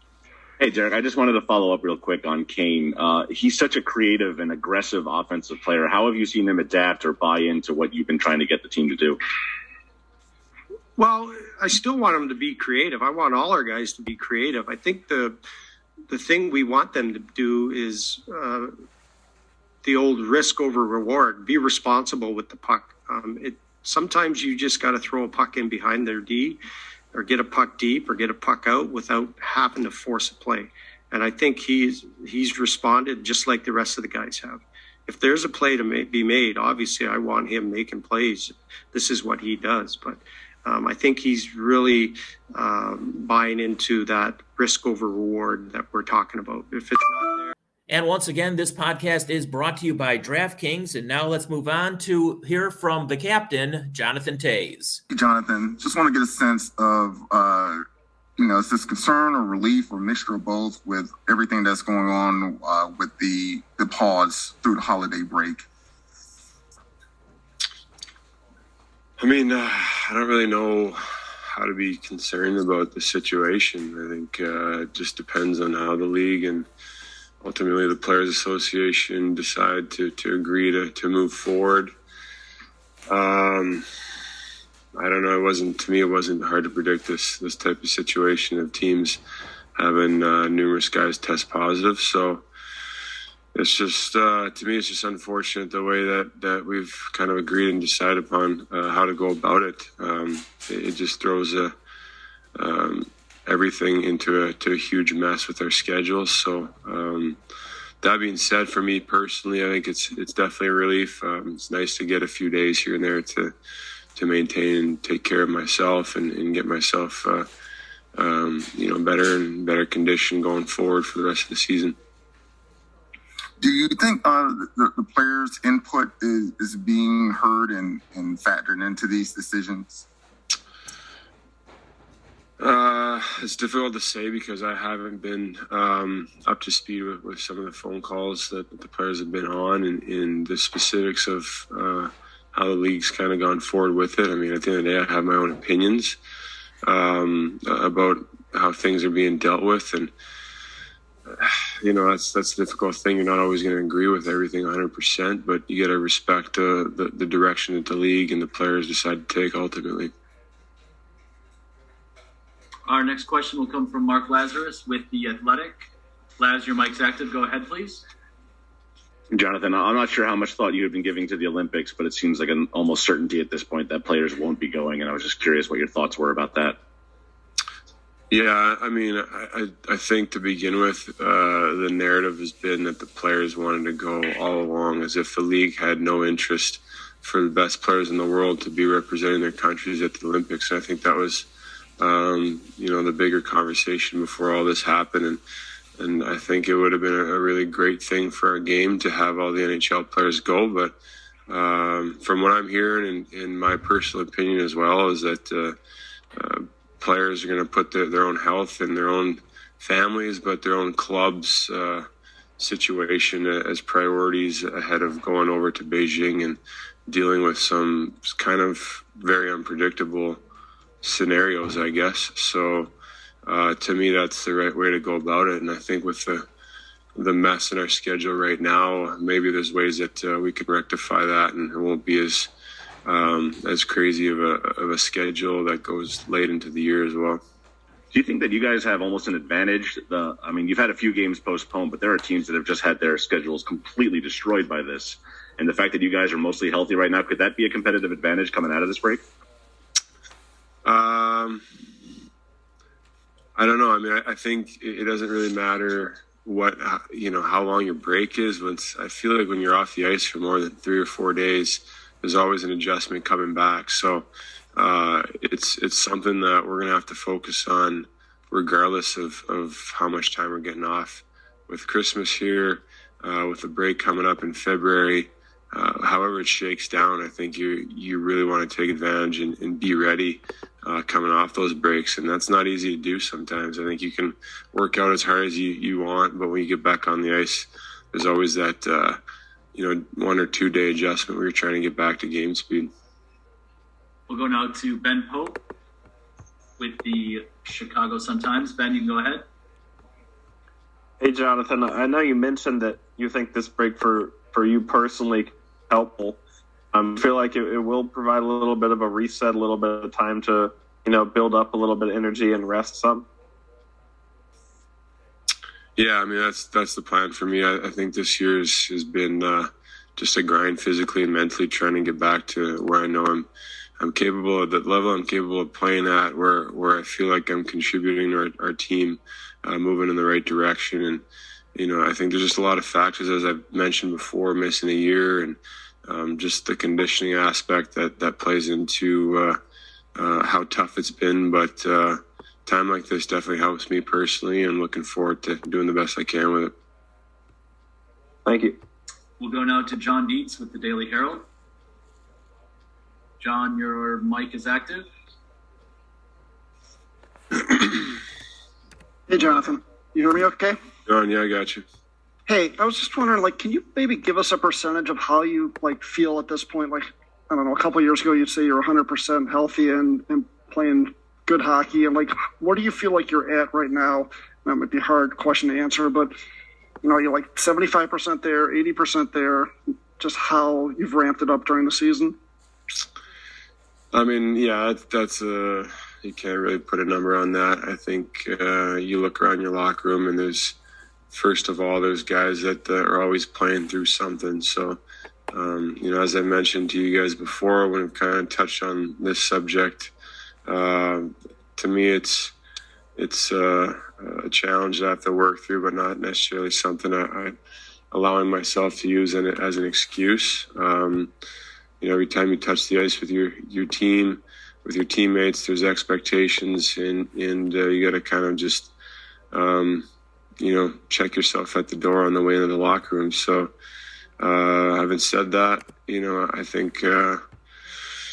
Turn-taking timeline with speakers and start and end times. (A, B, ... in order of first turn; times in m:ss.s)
0:00.6-0:09.2 A
0:11.0-0:15.4 B
0:16.1-0:18.7 B
0:19.8-0:26.6 B
0:27.1-0:47.5 B
0:47.9-0:55.0 C
0:55.1-0:57.8 D
0:58.4-1:05.6 D
1:09.2-1:16.7 E
1:17.4-1:21.9 E
1:23.1-1:23.8 E
1:25.0-1:29.2 E
1:29.8-1:32.4 E
1:33.5-1:41.7 E
1:42.6-1:47.4 E
1:48.0-1:53.5 E
1:54.2-1:57.5 E
1:58.2-2:02.0 E
2:03.6-2:10.0 D
2:12.6-2:26.2 E
2:26.8-2:30.1 E
2:31.3-2:40.1 E
2:42.9-2:45.8 F
2:46.4-2:48.0 F
2:49.3-2:56.8 A
2:58.3-3:11.5 E
3:12.0-3:15.4 E
3:16.0-3:21.0 E
3:21.5-3:25.8 E
3:26.4-3:32.1 E
3:32.6-3:40.4 E
3:41.0-3:42.9 E
3:43.4-3:46.5 E
3:47.2-3:52.5 E
3:53.0-3:57.4 E
3:58.1-4:09.2 A
4:10.8-4:11.6 E
4:13.6-4:49.2 E
4:49.7-4:52.9 E
4:54.3-4:55.6 F
4:56.8-4:59.4 F
5:01.2-5:06.4 G
5:06.9-5:13.3 G
5:16.0-5:23.5 E
5:24.0-5:31.2 E
5:31.8-5:39.6 E
5:40.2-5:46.7 E
5:48.4-5:48.8 G
5:49.4-5:51.5 F
5:53.4-5:55.1 F
5:59.3-6:00.8 H
6:01.0-6:01.8 E
6:02.5-6:16.4 H
6:17.0-6:22.4 H
6:24.1-6:30.8 E
6:31.3-6:35.0 E
6:35.5-6:40.1 E
6:40.6-6:42.5 E
6:43.2-6:47.6 E
6:48.1-6:51.3 E
6:52.0-6:58.9 E
6:59.5-7:00.1 E
7:00.6-7:03.7 E
7:04.4-7:07.4 E